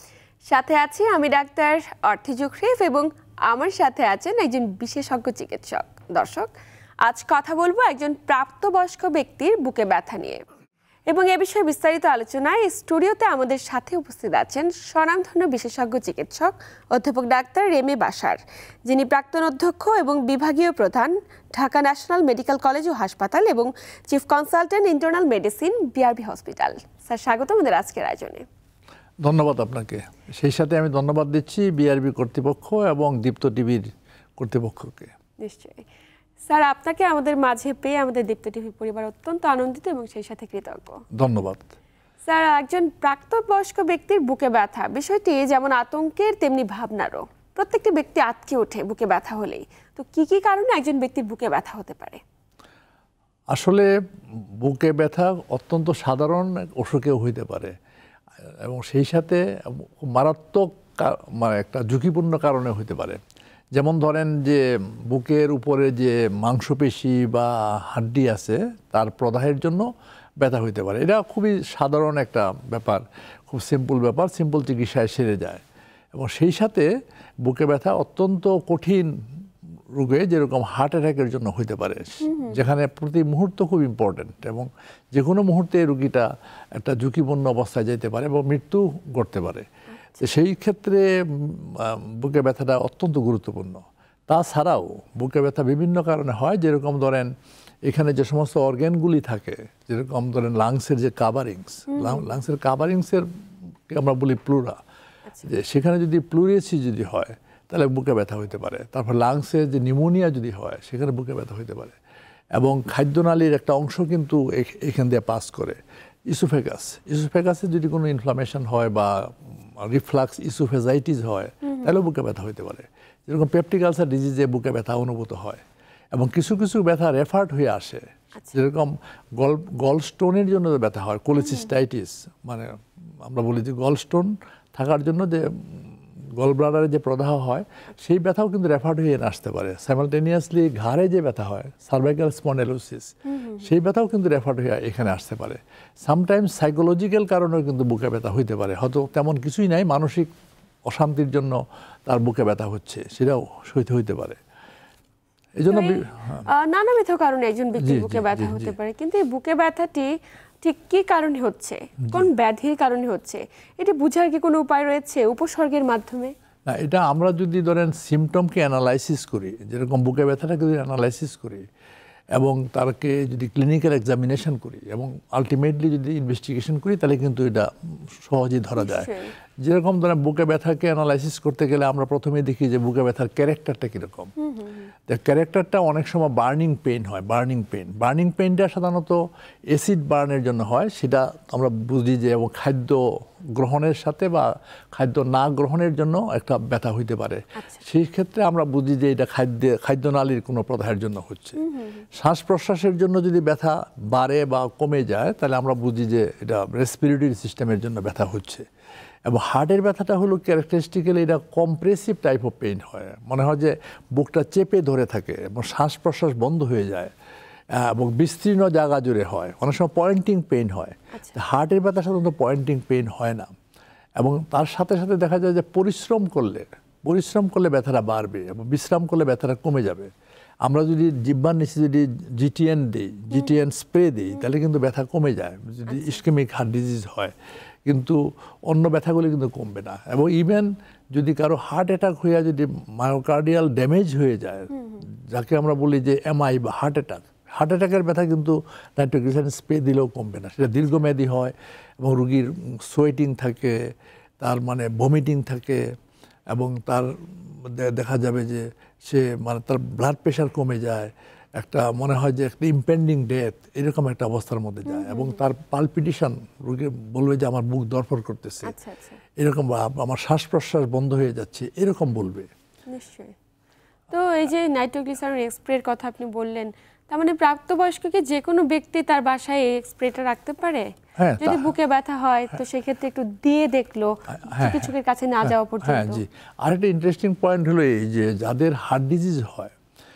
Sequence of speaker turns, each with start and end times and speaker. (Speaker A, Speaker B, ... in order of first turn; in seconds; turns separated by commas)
Speaker A: 0.5-6.5, Speaker A: 7.0-10.4, Speaker A: 11.1-28.4, Speaker B: 29.2-35.1, Speaker A: 35.4-35.9, Speaker A: 36.5-41.0, Speaker B: 41.1-41.7, Speaker A: 42.3-52.2, Speaker B: 53.5-53.9, Speaker B: 54.6-57.8, Speaker B: 58.6-63.2, Speaker B: 63.7-69.9, Speaker B: 70.4-75.6, Speaker B: 76.1-76.9, Speaker B: 77.5-79.1, Speaker B: 80.0-89.7, Speaker A: 82.2-82.6, Speaker B: 90.2-97.3, Speaker B: 97.9-103.3, Speaker A: 101.9-102.3, Speaker B: 103.9-104.8, Speaker B: 105.5-112.0, Speaker B: 112.5-125.6, Speaker A: 121.7-122.0, Speaker B: 126.1-150.3, Speaker A: 143.3-143.7, Speaker B: 150.9-154.4, Speaker B: 155.6-156.5, Speaker A: 155.7-160.1, Speaker B: 157.8-158.7, Speaker A: 160.6-166.3, Speaker B: 166.7-171.7, Speaker B: 172.4-179.1, Speaker A: 178.8-179.3, Speaker B: 179.6-184.3, Speaker A: 184.4-184.9, Speaker B: 185.1-193.0, Speaker B: 193.6-201.6, Speaker A: 201.6-202.1, Speaker B: 202.1-208.7, Speaker B: 209.2-217.1, Speaker B: 217.7-223.5, Speaker A: 221.1-221.4, Speaker B: 224.2-230.1, Speaker B: 230.7-237.3, Speaker A: 235.9-236.2, Speaker B: 237.8-253.8, Speaker A: 244.7-245.0, Speaker B: 254.4-255.8, Speaker B: 256.5-268.7, Speaker A: 264.9-265.4, Speaker A: 268.6-269.2, Speaker B: 269.4-272.5, Speaker A: 272.9-273.4, Speaker A: 274.1-286.2, Speaker B: 281.2-281.7, Speaker B: 284.3-284.9, Speaker B: 285.4-289.7